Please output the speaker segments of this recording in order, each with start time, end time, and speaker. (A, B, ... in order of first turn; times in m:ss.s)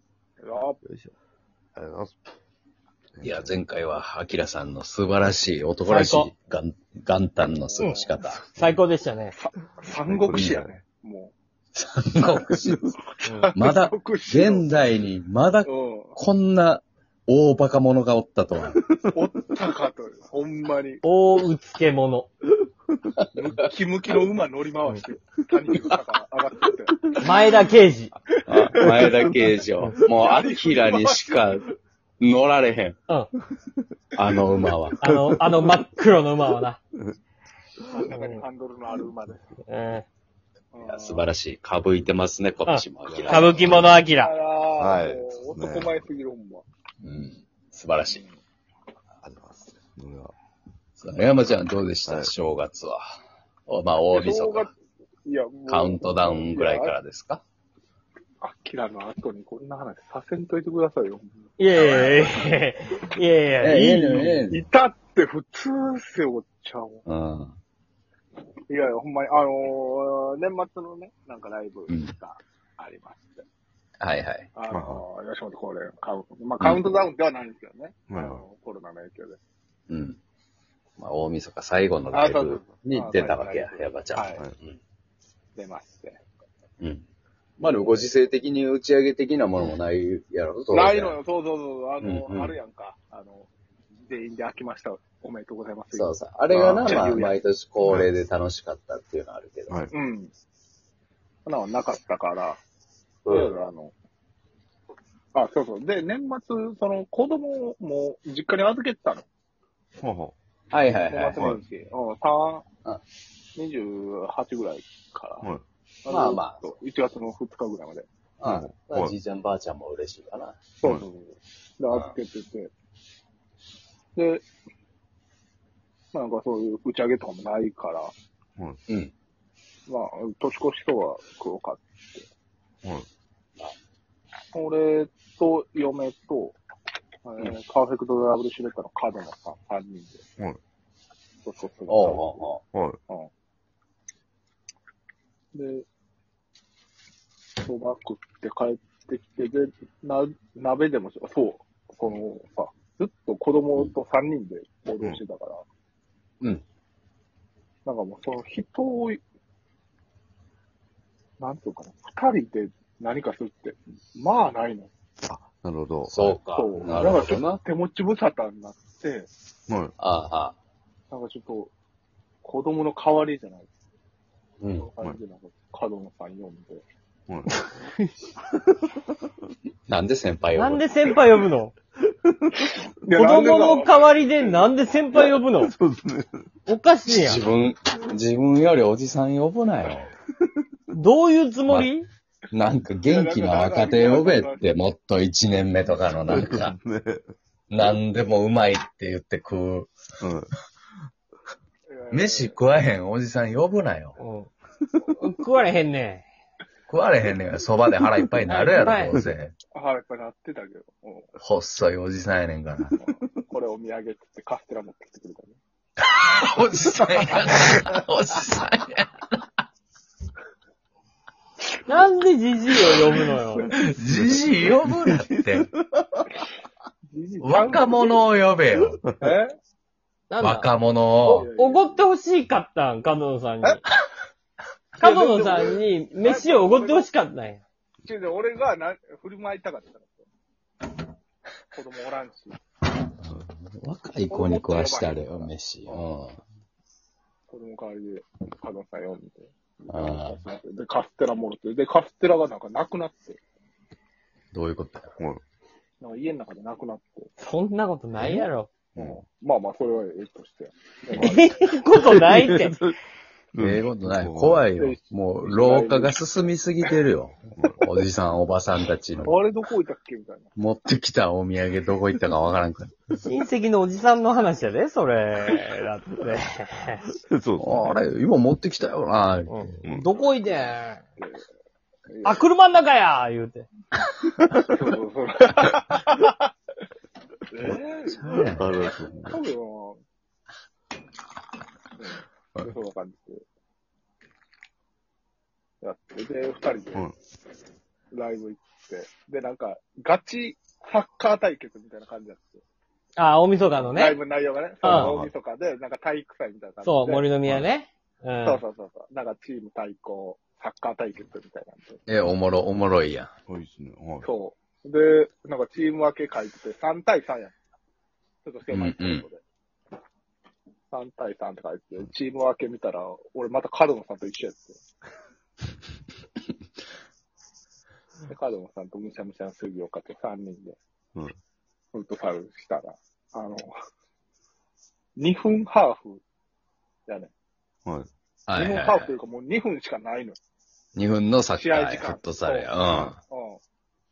0:00.4-0:00.8 A
0:00.8-0:01.1 B
0:01.8-0:02.2 B
0:03.2-0:03.6 B
0:03.2-0:08.4 C
0:05.9-0:06.3 D
0:07.5-0:08.1 A
0:07.8-0:09.3 D
0:09.3-0:11.3 A
0:10.1-0:10.7 B
0:10.3-0:10.6 C
0:11.8-0:12.8 C
0:13.2-0:14.7 A
0:13.6-0:18.8 C
0:15.6-0:16.2 A
0:19.1-0:21.0 A
0:21.0-0:22.3 D
0:23.3-0:27.2 A
0:27.2-0:28.1 D
0:28.5-0:29.3 A
0:28.5-0:31.7 C
0:28.8-0:29.2 B
0:30.0-0:31.4 A
0:32.2-0:33.0 C
0:34.2-0:35.0 C
0:35.0-0:36.8 D
0:35.1-0:35.7 B
0:37.9-0:39.6 A
0:38.1-0:38.4 D
0:39.7-0:40.1 D
0:40.7-0:41.3 A
0:40.8-0:43.9 C
0:42.7-0:44.3 D
0:43.0-0:43.9 B
0:44.1-0:46.6 A
0:44.8-0:46.0 B
0:47.0-0:48.2 C
0:48.1-0:48.4 A
0:49.2-0:50.3 B
0:51.0-0:53.0 C
0:52.0-0:52.3 B
0:53.7-0:54.7 C
0:54.1-0:54.7 A
0:55.2-0:57.0 A
0:55.7-0:57.4 C
0:58.4-1:02.5 A
1:01.6-1:04.2 D
1:03.6-1:04.6 C
1:04.0-1:07.0 A
1:07.1-1:07.6 C
1:08.7-1:13.4 A
1:14.0-1:14.5 C
1:14.6-1:19.4 A
1:14.7-1:15.0 B
1:16.6-1:16.8 C
1:18.1-1:18.4 B
1:19.9-1:20.2 C
1:21.0-1:24.8 C
1:22.1-1:24.4 A
1:25.6-1:26.2 A
1:26.8-1:27.0 C
1:27.6-1:31.2 C
1:27.6-1:27.9 A
1:30.7-1:33.5 A
1:32.0-1:32.6 C
1:34.1-1:37.4 A
1:35.9-1:39.8 C
1:36.6-1:36.9 B
1:37.8-1:38.1 B
1:39.9-1:40.3 A
1:41.5-1:42.6 A
1:43.2-1:43.6 C
1:43.3-1:43.9 A
1:45.3-1:49.3 A
1:50.0-1:50.4 B
1:50.7-1:51.4 C
1:51.1-1:52.6 A
1:53.6-1:55.5 A
1:56.0-1:58.1 A
1:56.1-1:56.6 C
1:58.4-2:00.6 C
1:58.4-1:59.2 B
2:00.8-2:02.7 A
2:04.2-2:04.5 A
2:06.1-2:08.1 A
2:09.9-2:12.3 A
2:14.5-2:16.6 A
2:17.2-2:20.2 A
2:21.4-2:22.5 A
2:21.9-2:22.6 C
2:22.7-2:23.0 B
2:25.5-2:25.9 A
2:27.6-2:35.6 A
2:37.8-2:39.2 A
2:41.4-2:44.9 A
2:45.3-2:46.4 B
2:46.1-2:47.6 C
2:46.5-2:49.3 A
2:49.7-2:49.9 B
2:50.0-2:50.6 C
2:51.1-2:51.7 A
2:52.4-2:53.7 A
2:54.6-2:54.9 C
2:54.8-2:56.8 A
2:59.9-3:00.8 C
3:00.6-3:01.7 D
3:02.2-3:02.7 B
3:03.0-3:04.7 A
3:03.1-3:05.7 D
3:05.6-3:06.5 B
3:06.7-3:07.4 D
3:07.1-3:10.1 C
3:10.9-3:12.1 D
3:12.5-3:16.8 C
3:13.1-3:14.7 A
3:16.3-3:17.2 B
3:17.7-3:19.9 C
3:20.2-3:20.5 B
3:21.9-3:22.6 A
3:22.1-3:24.2 C
3:24.2-3:24.5 D
3:25.2-3:26.2 D
3:26.9-3:29.5 C
3:28.5-3:29.2 D
3:29.7-3:31.3 A
3:31.4-3:33.0 C
3:33.0-3:35.6 A
3:36.0-3:39.2 C
3:41.9-3:43.8 D
3:43.7-3:45.7 C
3:44.2-3:46.3 B
3:47.1-3:48.2 A
3:47.4-3:49.0 C
3:49.0-3:49.3 B
3:49.2-3:49.6 A
3:50.3-3:50.7 D
3:50.4-3:51.5 C
3:51.2-3:53.8 D
3:51.4-3:52.0 A
3:55.0-3:57.6 D
3:55.0-3:57.1 A
3:58.0-4:00.3 A
4:01.7-4:02.6 A
4:03.2-4:06.4 C
4:04.3-4:06.0 A
4:07.5-4:13.4 A
4:09.9-4:10.4 C
4:14.5-4:15.1 C
4:16.0-4:17.3 A
4:17.4-4:18.7 D
4:19.0-4:19.2 B
4:19.0-4:21.6 A
4:21.2-4:22.8 D
4:22.0-4:22.9 B
4:23.5-4:24.7 B
4:23.6-4:29.4 C
4:24.8-4:26.2 A
4:27.5-4:27.9 B
4:29.2-4:30.5 A
4:30.6-4:32.9 C
4:33.2-4:37.1 D
4:37.2-4:38.0 B
4:37.6-4:39.6 C
4:39.5-4:41.0 D
4:41.2-4:41.4 A
4:42.1-4:42.4 A
4:42.2-4:43.7 D
4:44.6-4:46.5 A
4:47.5-4:50.0 A
4:47.6-4:48.9 C
4:48.4-4:49.4 B
4:52.0-4:53.4 A
4:55.8-4:57.0 A
4:58.1-5:02.6 A
5:03.2-5:04.2 D
5:03.8-5:07.3 A
5:04.8-5:05.1 D
5:04.8-5:05.3 C
5:06.8-5:08.6 D
5:08.4-5:12.0 A
5:12.1-5:13.3 C
5:13.5-5:14.3 B
5:14.2-5:17.6 A
5:18.4-5:19.4 A
5:18.7-5:19.3 C
5:20.9-5:24.8 A
5:28.3-5:30.8 A
5:31.9-5:33.7 A
5:35.2-5:36.2 A
5:38.5-5:39.1 C
5:38.5-5:40.4 A
5:41.0-5:43.2 C
5:41.6-5:42.7 A
5:42.9-5:43.2 B
5:43.2-5:43.6 A